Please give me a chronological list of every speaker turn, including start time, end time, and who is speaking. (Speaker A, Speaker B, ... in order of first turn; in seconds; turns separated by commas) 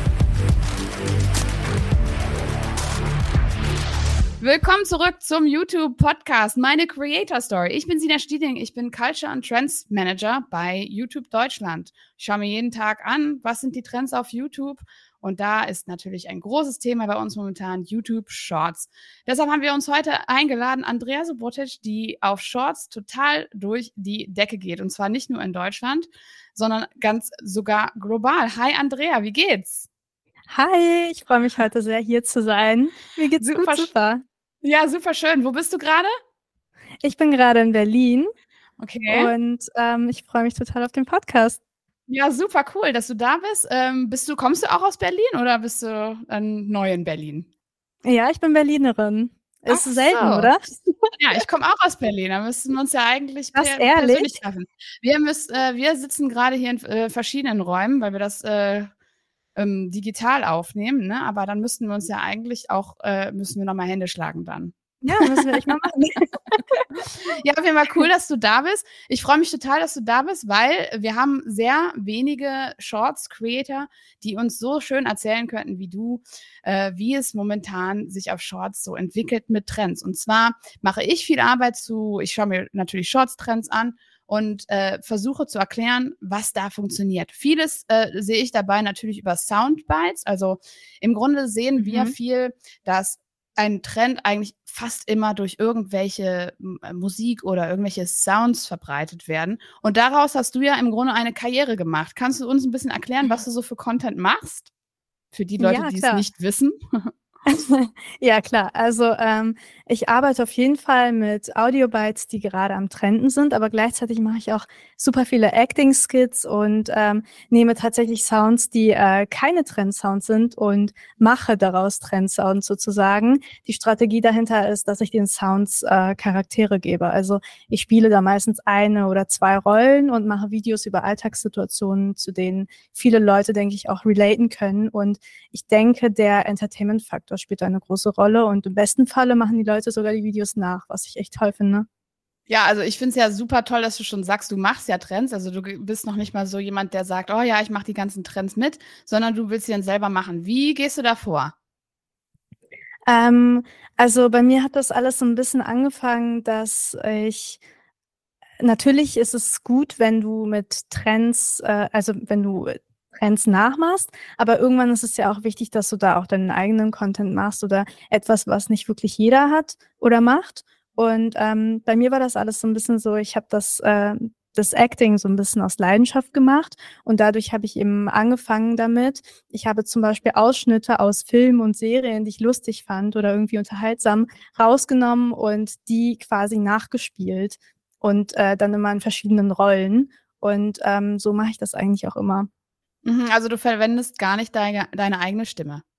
Speaker A: 4.4-29.9, Speaker B: 30.5-34.2, Speaker A: 33.4-33.9, Speaker A: 34.6-36.1, Speaker B: 37.0-38.3, Speaker A: 38.8-39.3, Speaker B: 39.1-41.6, Speaker A: 42.1-47.5, Speaker B: 48.0-51.1, Speaker A: 49.7-50.5, Speaker A: 51.2-58.9, Speaker B: 53.5-54.4, Speaker A: 59.5-64.7, Speaker B: 65.0-66.9, Speaker A: 67.3-104.7, Speaker B: 91.8-92.1, Speaker A: 105.3-107.1, Speaker B: 105.6-106.2, Speaker B: 107.5-141.9, Speaker A: 142.5-151.5, Speaker B: 153.1-157.6, Speaker B: 158.6-192.5, Speaker A: 193.1-195.8